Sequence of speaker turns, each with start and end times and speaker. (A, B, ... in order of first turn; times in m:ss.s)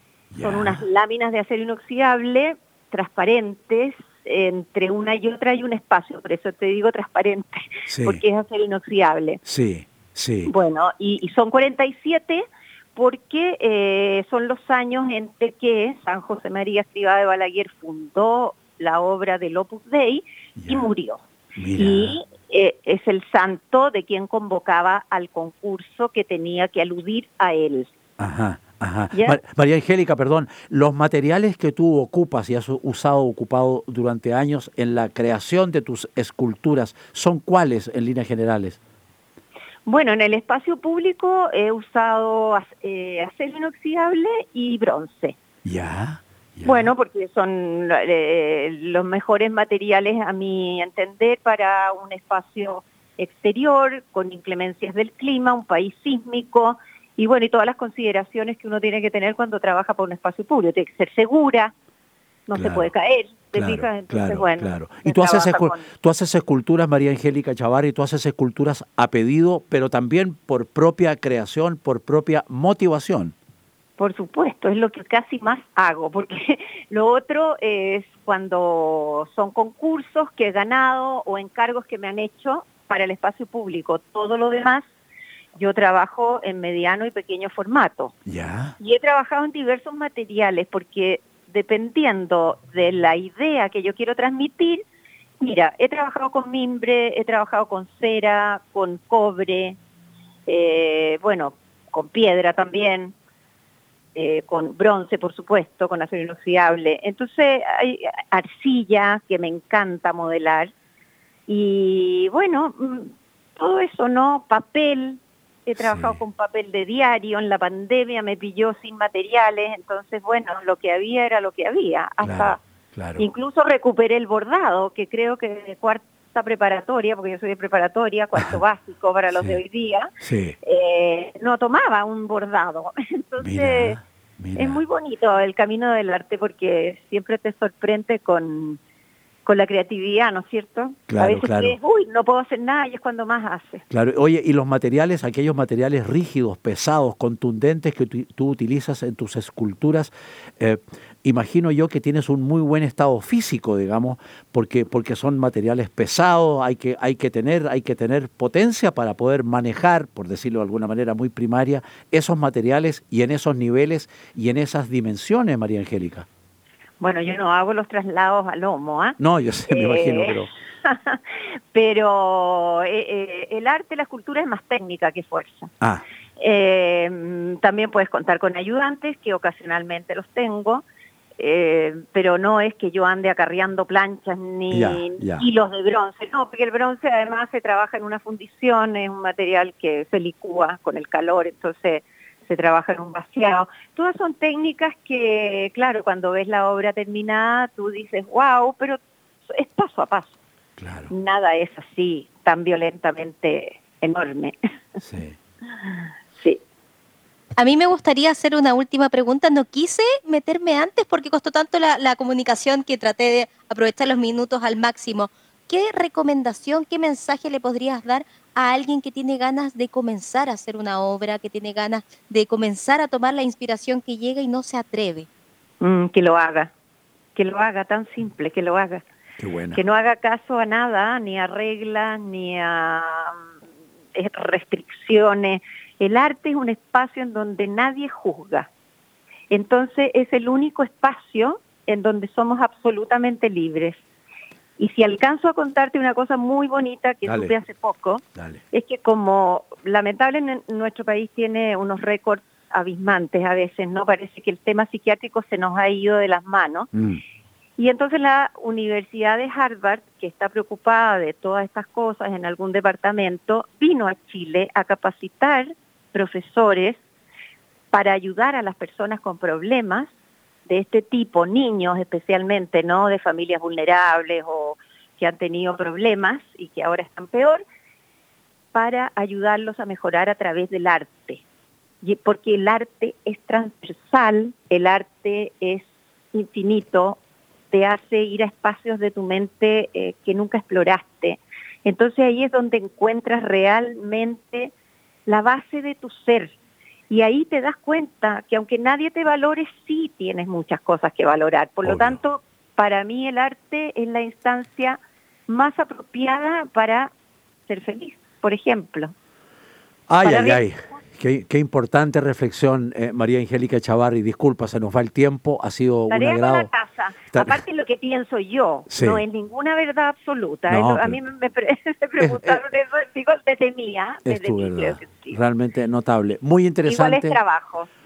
0:00.3-0:00.8 A
0:00.4-0:09.4 B
0:07.9-0:08.2 A
0:09.4-0:10.5 A
0:10.5-0:21.2 B
0:20.6-0:20.9 A
0:21.6-0:22.2 A
0:21.8-0:27.9 B
0:28.2-0:38.8 A
0:29.1-0:29.4 B
0:39.9-0:45.4 B
0:45.6-0:46.9 A
0:46.6-1:01.7 B
1:02.5-1:05.9 B
1:02.5-1:02.9 A
1:03.5-1:13.3 A
1:14.0-1:24.8 B
1:25.6-1:28.1 B
1:28.2-1:28.7 A
1:28.8-1:34.8 B
1:35.4-1:39.8 B
1:40.5-1:43.1 B
1:44.2-1:50.7 B
1:51.5-2:02.6 B
1:55.8-1:56.2 A
2:02.2-2:03.3 A
2:03.2-2:14.0 B
2:08.4-2:08.6 A
2:09.3-2:09.6 A
2:10.2-2:10.6 A
2:13.4-2:14.8 A
2:14.6-2:18.8 B
2:19.4-2:23.8 B
2:21.1-2:21.8 A
2:23.9-2:46.3 A
2:47.0-2:49.2 B
2:49.2-2:50.5 A
2:49.7-2:51.2 B
2:51.7-2:55.7 B
2:56.4-3:00.8 B
3:01.4-3:20.4 B
3:04.7-3:05.5 A
3:20.8-3:21.1 A
3:21.1-3:24.6 B
3:25.0-3:25.4 A
3:25.8-3:26.6 B
3:27.6-3:45.3 C
3:45.8-3:46.7 B
3:47.4-3:49.0 B
3:49.4-3:49.8 A
3:49.7-3:53.3 B
3:54.2-3:58.7 B
3:59.5-4:04.0 B
4:04.8-4:16.9 B
4:07.2-4:07.6 A
4:08.4-4:08.6 A
4:16.9-4:17.2 A
4:17.8-4:27.0 B
4:27.9-4:30.1 B
4:30.6-4:37.6 B
4:38.7-4:41.4 B
4:42.0-4:47.2 B
4:47.7-4:54.7 B
4:55.3-4:56.6 B
4:57.1-5:07.1 B
5:01.8-5:02.2 A
5:07.7-5:09.1 B
5:10.1-5:16.7 A
5:10.2-5:10.6 B
5:16.1-5:25.4 B
5:17.3-5:17.6 A
5:18.9-5:19.2 A
5:20.7-5:21.2 A
5:22.2-5:22.6 A
5:24.2-5:27.4 A
5:26.8-5:27.9 B